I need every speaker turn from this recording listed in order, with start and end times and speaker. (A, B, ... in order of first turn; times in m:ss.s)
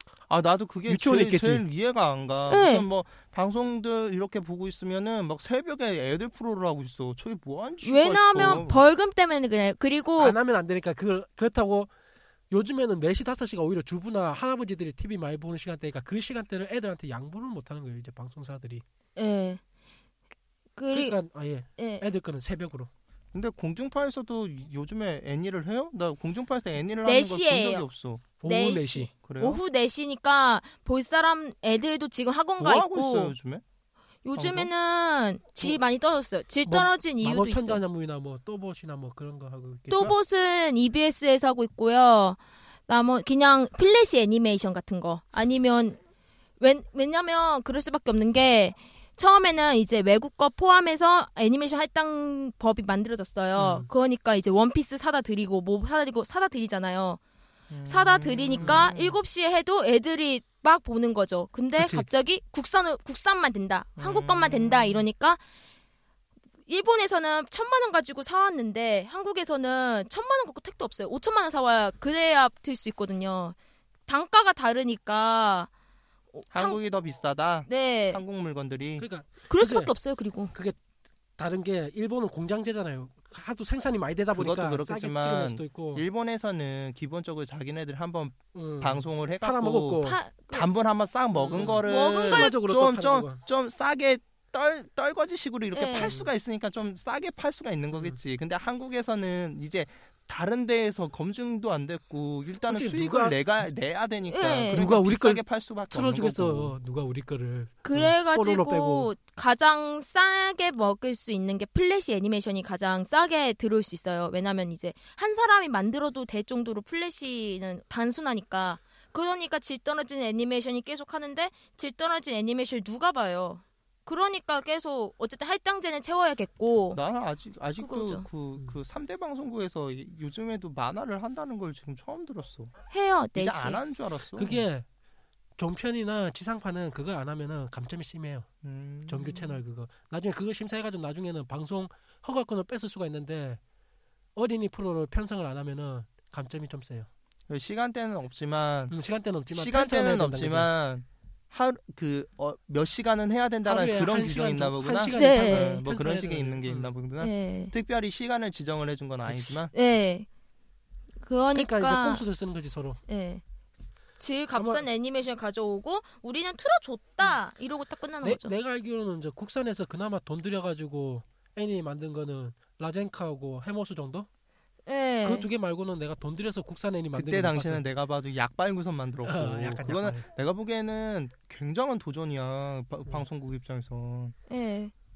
0:00.3-0:08.8 A
0:00.9-0:01.6 B
0:02.5-0:02.9 C
0:07.8-0:10.4 C
0:08.4-0:08.6 B
0:10.2-0:11.9 B
0:12.5-0:18.8 B
0:19.2-0:19.6 C
0:20.8-0:21.2 C
0:20.9-0:22.9 B
0:21.8-0:22.0 C
0:23.3-0:28.2 A
0:27.0-0:27.8 C
0:28.4-0:29.1 B
0:28.4-0:33.4 C
0:29.2-0:29.6 A
0:32.6-0:33.6 A
0:34.2-0:37.8 C
0:34.4-0:34.7 A
0:36.7-0:40.2 B
0:39.9-0:46.0 C
0:46.6-0:57.2 C
0:53.6-0:53.9 B
0:57.7-0:59.2 A
0:57.9-1:05.4 C
0:58.6-0:58.9 B
1:01.8-1:02.1 B
1:04.0-1:05.1 A
1:06.7-1:13.6 C
1:14.1-1:15.7 C
1:16.3-1:16.8 C
1:16.5-1:19.1 A
1:17.7-1:18.2 C
1:19.0-1:19.9 B
1:19.5-1:20.5 C
1:21.4-1:26.0 B
1:24.3-1:46.8 A
1:28.5-1:30.2 B
1:30.0-1:30.7 C
1:31.4-1:33.4 B
1:31.6-1:32.6 C
1:35.7-1:36.2 C
1:36.0-1:36.3 B
1:42.7-1:43.4 B
1:44.3-1:44.9 C
1:44.7-1:49.1 B
1:47.8-2:07.0 C
2:06.9-2:12.7 A
2:07.8-2:08.3 C
2:12.9-2:13.8 C
2:13.4-2:14.6 A
2:14.4-2:14.9 B
2:15.6-2:18.5 B
2:18.6-2:19.6 A
2:19.1-2:23.6 B
2:24.4-2:27.1 B
2:27.5-2:29.0 A
2:28.9-2:30.7 B
2:29.5-2:39.7 A
2:33.6-2:36.9 B
2:35.1-2:35.8 C
2:37.2-2:37.7 C
2:39.3-2:39.6 B
2:39.7-2:40.3 C
2:41.2-2:42.2 C
2:41.5-2:43.0 B
2:43.1-2:43.4 C
2:44.2-2:48.5 C
2:44.5-2:44.8 B
2:48.2-2:54.3 B
2:54.9-2:55.5 C
2:55.2-2:57.8 B
2:57.1-3:04.4 A
2:59.2-3:00.2 B
3:04.5-3:04.9 C